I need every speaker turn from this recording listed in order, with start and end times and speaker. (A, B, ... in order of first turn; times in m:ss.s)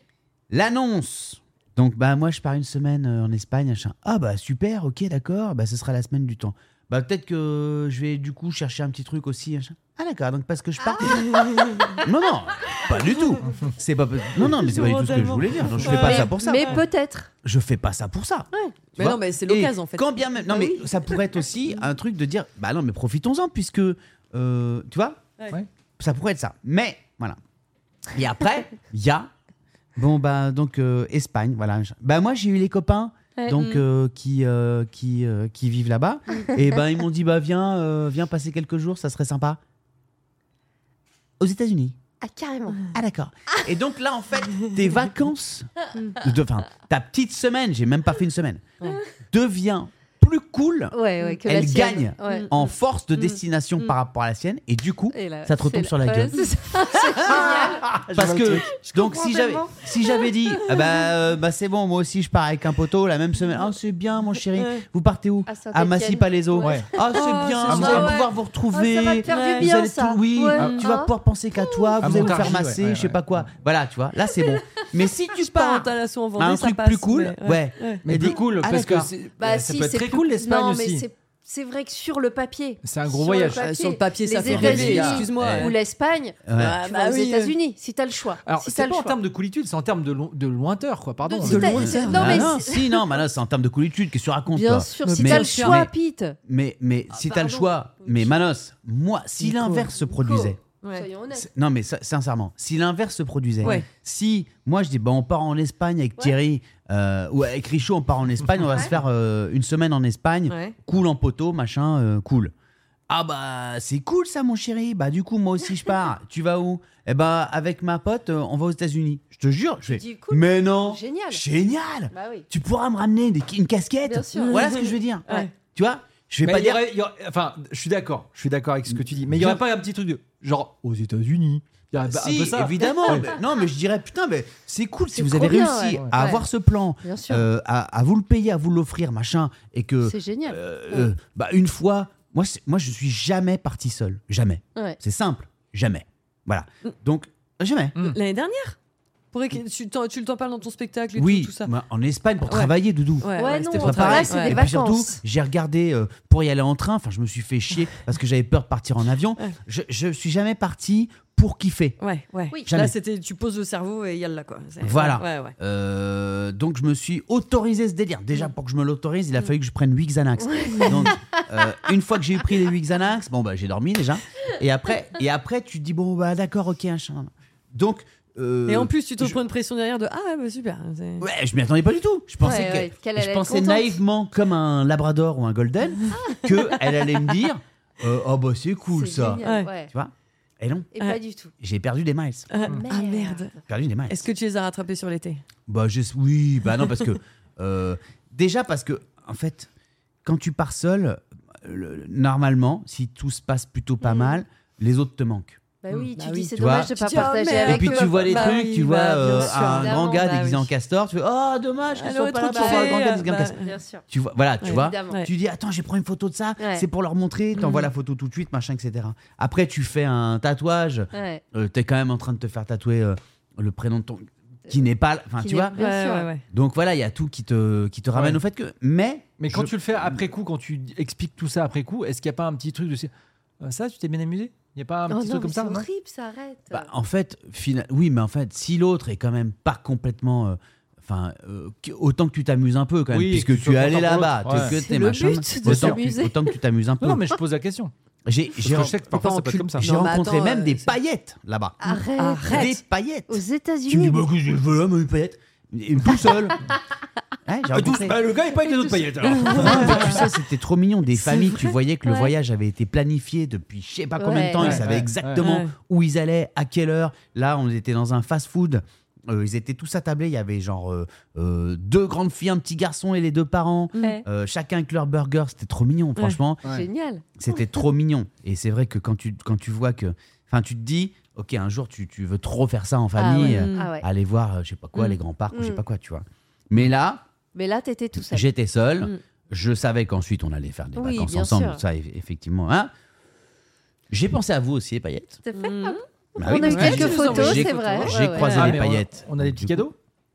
0:00.5-0:11.4 A
0:10.8-0:12.0 B
0:11.0-0:12.0 C
0:12.0-0:16.8 A
0:14.4-0:16.8 C
0:15.1-0:16.0 D
0:15.9-0:17.3 B
0:17.4-0:25.2 A
0:18.9-0:20.2 C
0:20.5-0:20.8 B
0:26.0-0:27.4 A
0:28.1-0:29.3 A
0:30.0-0:39.6 A
0:33.5-0:33.8 C
0:41.4-0:42.0 A
0:42.2-0:42.9 B
0:42.9-0:48.7 A
0:49.3-0:56.4 A
0:50.9-0:52.6 B
0:52.2-0:52.5 C
0:53.2-0:53.9 C
0:55.1-0:58.0 B
0:57.2-1:19.1 A
0:57.8-0:58.7 D
0:58.8-1:00.3 B
1:04.6-1:04.8 C
1:05.5-1:06.8 B
1:06.6-1:06.9 D
1:07.1-1:08.2 C
1:07.7-1:08.2 D
1:07.7-1:11.1 B
1:09.3-1:09.7 C
1:12.0-1:13.5 D
1:15.4-1:18.0 C
1:18.0-1:21.1 D
1:19.4-1:29.2 B
1:22.8-1:23.7 D
1:23.5-1:25.8 C
1:24.4-1:25.7 A
1:24.5-1:25.3 D
1:26.4-1:26.8 A
1:26.6-1:27.6 C
1:28.5-1:32.3 D
1:31.2-1:33.1 B
1:31.4-1:32.6 C
1:31.6-1:35.9 A
1:34.5-1:36.4 B
1:35.0-1:35.8 C
1:36.5-1:40.6 A
1:37.1-1:38.4 B
1:39.4-1:39.9 C
1:40.0-1:41.5 B
1:40.8-1:41.1 C
1:41.3-1:52.5 A
1:50.5-1:50.8 C
1:53.1-2:06.9 A
1:59.9-2:01.4 B
2:02.1-2:02.5 B
2:04.0-2:04.7 B
2:04.4-2:05.5 C
2:06.4-2:13.3 D
2:08.9-2:09.6 A
2:12.1-2:28.0 A
2:13.1-2:13.3 B
2:15.2-2:16.4 B
2:17.0-2:17.5 B
2:20.0-2:21.1 B
2:28.0-2:28.8 C
2:29.3-2:31.7 C
2:31.2-2:42.0 A
2:32.5-2:34.6 C
2:33.4-2:35.2 B
2:42.0-2:45.6 C
2:42.7-2:42.9 A
2:44.8-2:59.4 A
2:50.5-2:51.1 B
2:58.7-3:01.3 C
3:01.2-3:10.9 A
3:02.4-3:04.0 B
3:06.2-3:06.6 C
3:08.9-3:09.9 B
3:09.4-3:09.7 C
3:10.9-3:11.5 B
3:11.6-3:12.5 A
3:12.5-3:13.5 C
3:12.6-3:13.6 B
3:13.7-3:14.3 A
3:14.1-3:15.4 C
3:15.7-3:19.7 A
3:20.2-3:25.6 A
3:24.0-3:24.4 B
3:25.8-3:28.6 B
3:26.0-3:30.7 C
3:26.6-3:33.6 A
3:29.2-3:30.4 B
3:31.9-3:33.7 C
3:32.4-3:34.0 B
3:34.1-3:45.8 A
3:34.6-3:35.3 C
3:34.7-3:35.2 B
3:36.6-3:36.8 B
3:37.6-3:37.9 C
3:41.1-3:41.4 B
3:45.4-3:46.3 B
3:45.8-3:46.4 C
3:46.5-3:50.2 A
3:48.1-3:48.4 D
3:49.4-3:53.1 D
3:53.6-3:55.9 D
3:55.1-3:56.9 B
3:56.7-4:07.3 A
4:03.1-4:04.8 D
4:04.5-4:06.0 C
4:05.5-4:06.5 B
4:05.6-4:06.0 D
4:07.0-4:07.9 D
4:08.3-4:11.8 A
4:08.6-4:09.9 D
4:09.2-4:10.9 C
4:11.8-4:12.7 B
4:12.2-4:12.8 C
4:12.4-4:16.6 A
4:13.3-4:14.3 B
4:17.5-4:18.2 A
4:17.7-4:20.3 D
4:19.3-4:20.2 C
4:19.5-4:36.6 A
4:21.3-4:21.7 C
4:22.1-4:22.3 B
4:24.2-4:24.8 B
4:24.6-4:25.4 D
4:25.4-4:25.7 C
4:33.9-4:34.2 C
4:36.7-4:37.3 B
4:37.4-4:47.2 A
4:43.2-4:44.0 B
4:43.4-4:43.9 C
4:45.5-4:45.8 B
4:47.5-4:48.5 B
4:48.2-4:52.9 A
4:51.0-4:51.8 B
4:54.1-4:55.4 A
4:55.5-4:58.6 B
4:55.5-4:56.0 C
4:56.4-4:59.9 A
4:56.6-4:57.7 C
4:56.7-5:00.0 D
4:58.4-4:58.7 C